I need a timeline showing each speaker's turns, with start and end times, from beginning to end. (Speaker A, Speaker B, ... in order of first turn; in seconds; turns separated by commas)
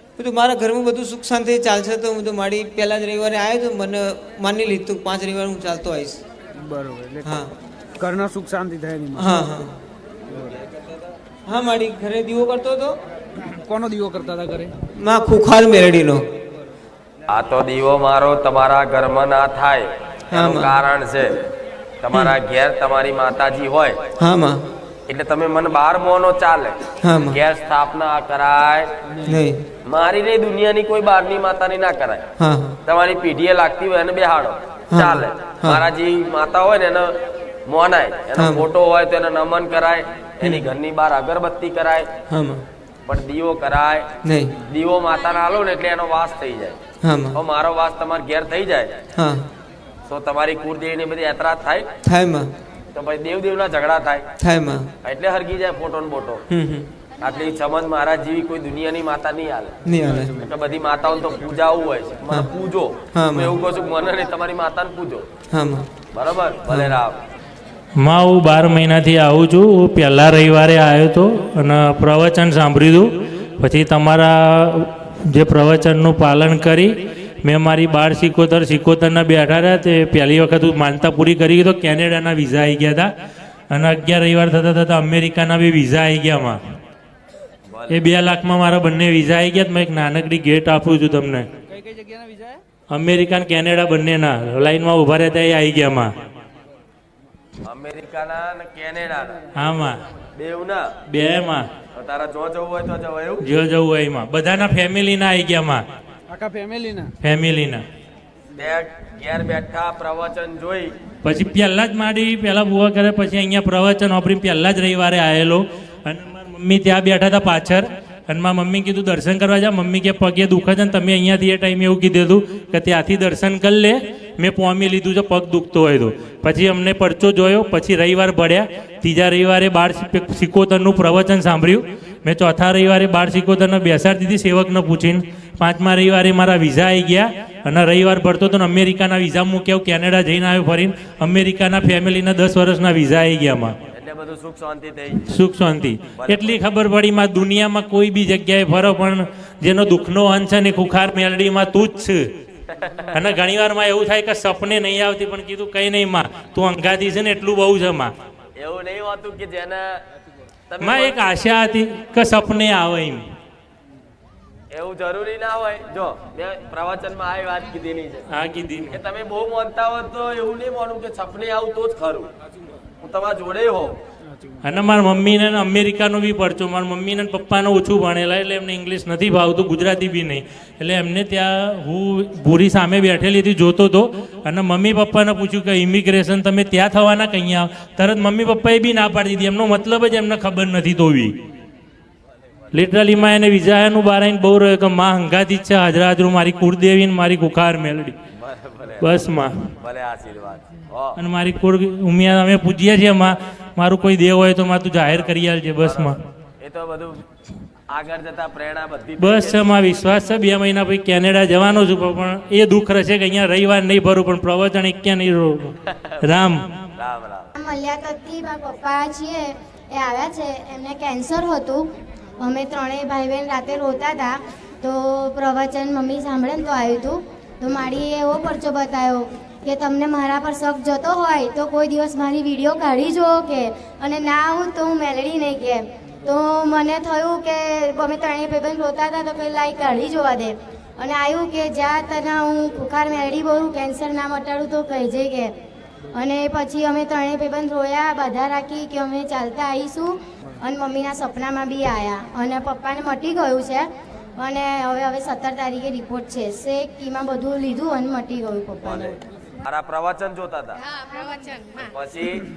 Speaker A: 0.2-6.2, Speaker B: 6.6-7.4, Speaker A: 7.2-7.5, Speaker B: 8.0-9.3, Speaker A: 9.2-9.8, Speaker A: 11.5-12.9, Speaker B: 13.6-14.7, Speaker A: 15.0-16.2, Speaker C: 17.3-21.4, Speaker A: 20.3-20.7, Speaker C: 22.0-24.0, Speaker A: 24.2-24.6, Speaker C: 25.1-28.9, Speaker A: 27.0-27.4, Speaker A: 29.3-29.6, Speaker C: 29.9-32.3, Speaker A: 32.4-32.8, Speaker C: 32.9-37.1, Speaker A: 34.9-35.8, Speaker C: 37.7-42.1, Speaker A: 38.4-38.6, Speaker A: 42.3-42.6, Speaker C: 43.0-44.1, Speaker A: 44.2-44.5, Speaker C: 44.6-46.8, Speaker A: 47.0-47.4, Speaker C: 47.3-49.0, Speaker A: 49.1-49.5, Speaker C: 50.1-51.9, Speaker A: 52.0-52.5, Speaker C: 52.9-54.3, Speaker A: 54.4-54.9, Speaker C: 55.0-56.4, Speaker A: 56.5-56.9, Speaker C: 57.2-65.3, Speaker A: 59.8-60.3, Speaker A: 63.1-63.5, Speaker A: 65.5-65.9, Speaker C: 66.1-67.2, Speaker A: 66.7-67.0, Speaker D: 68.0-76.9, Speaker D: 77.4-83.1, Speaker D: 83.7-86.6, Speaker C: 87.7-88.1, Speaker D: 87.9-91.5, Speaker B: 91.8-92.5, Speaker D: 92.9-96.1, Speaker C: 97.6-99.4, Speaker D: 99.5-100.0, Speaker C: 100.3-100.8, Speaker D: 101.1-101.7, Speaker C: 102.0-103.4, Speaker D: 103.4-105.8, Speaker B: 106.3-107.1, Speaker D: 107.2-107.8, Speaker C: 108.5-110.9, Speaker D: 111.2-143.8, Speaker C: 143.9-145.4, Speaker D: 145.3-152.2, Speaker C: 146.2-146.6, Speaker D: 153.1-158.1, Speaker C: 158.6-159.9, Speaker C: 160.7-161.2, Speaker D: 160.8-163.2, Speaker C: 164.7-168.2, Speaker D: 168.3-168.9, Speaker C: 168.9-172.3, Speaker C: 173.0-174.0, Speaker D: 174.6-191.3, Speaker D: 192.7-198.2, Speaker C: 198.4-201.1, Speaker D: 199.0-199.6, Speaker D: 201.2-206.2, Speaker C: 205.1-207.2, Speaker C: 207.9-209.8, Speaker D: 209.2-216.6, Speaker C: 217.0-217.5, Speaker E: 217.6-221.8, Speaker E: 222.4-245.5, Speaker E: 246.1-259.2, Speaker C: 258.8-260.8, Speaker E: 261.1-261.6, Speaker C: 261.8-262.4